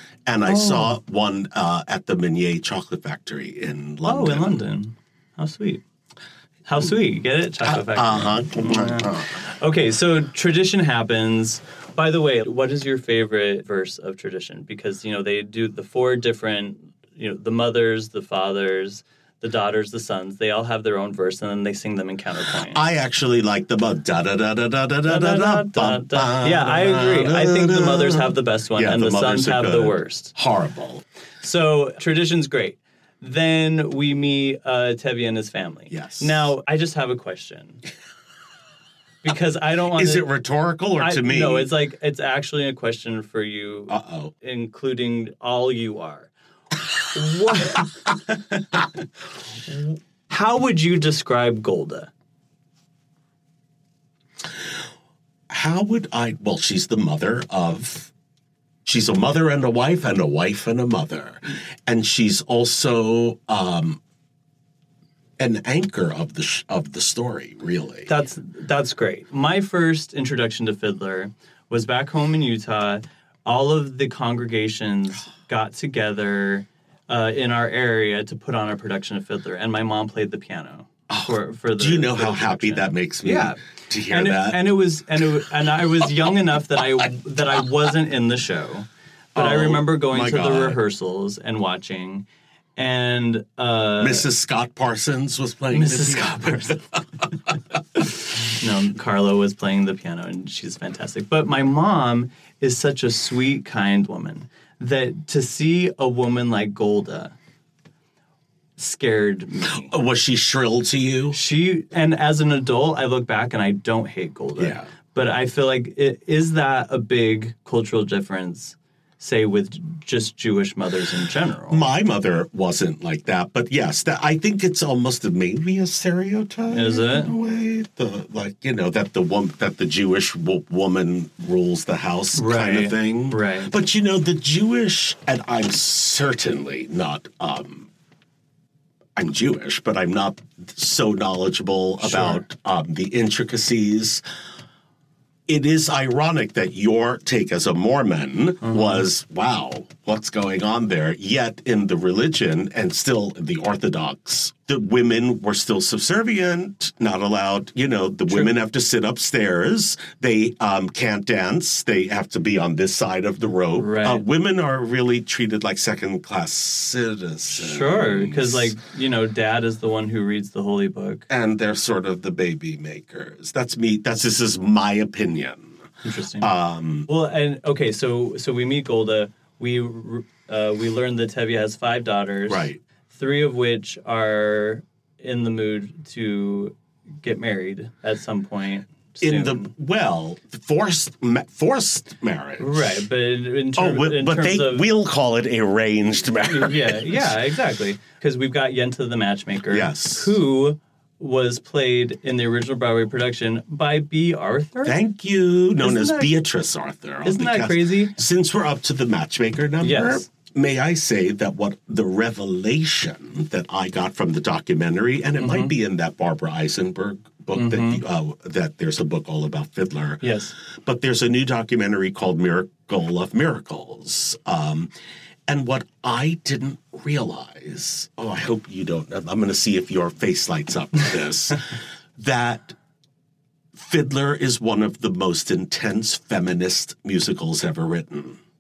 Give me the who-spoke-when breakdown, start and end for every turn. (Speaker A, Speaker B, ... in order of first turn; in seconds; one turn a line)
Speaker A: 0.3-4.6
Speaker B: 0.5-1.0
Speaker B: 4.0-5.8
Speaker B: 6.7-22.8
Speaker A: 7.6-9.5
Speaker A: 22.5-31.0
Speaker B: 25.1-30.3
Speaker B: 31.4-37.8
Speaker A: 35.9-36.5
Speaker B: 39.2-40.3
Speaker A: 39.9-41.7
Speaker B: 41.0-46.3
Speaker A: 43.9-44.3
Speaker B: 47.1-48.6
Speaker B: 49.7-52.1
Speaker A: 55.5-58.1
Speaker A: 58.9-64.0
Speaker A: 65.4-68.1
Speaker B: 68.1-92.2
Speaker A: 81.1-84.7
Speaker A: 89.3-90.8
Speaker B: 92.8-94.3
Speaker A: 94.0-97.0
Speaker B: 95.7-96.8
Speaker B: 98.5-107.3
Speaker B: 108.8-110.0
Speaker A: 109.7-111.4
Speaker B: 111.3-121.9
Speaker A: 114.6-114.9
Speaker A: 121.7-137.9
Speaker B: 126.7-127.3
Speaker B: 132.3-133.7
Speaker A: 139.2-144.2
Speaker B: 142.0-142.5
Speaker A: 145.5-168.8
Speaker B: 148.6-149.1
Speaker B: 163.8-164.2
Speaker B: 167.5-171.3
Speaker A: 171.3-175.8
Speaker B: 176.0-176.5
Speaker A: 176.4-177.1
Speaker B: 177.1-189.7
Speaker A: 182.5-182.8
Speaker A: 189.2-193.0
Speaker B: 192.6-194.9
Speaker A: 193.8-197.3
Speaker B: 196.5-205.0
Speaker A: 199.7-200.4
Speaker A: 204.8-224.9
Speaker B: 205.8-206.3
Speaker B: 207.2-208.2
Speaker B: 209.8-210.3
Speaker B: 215.4-215.8
Speaker B: 217.6-218.0
Speaker B: 220.2-220.5
Speaker A: 225.5-232.8
Speaker A: 233.8-238.4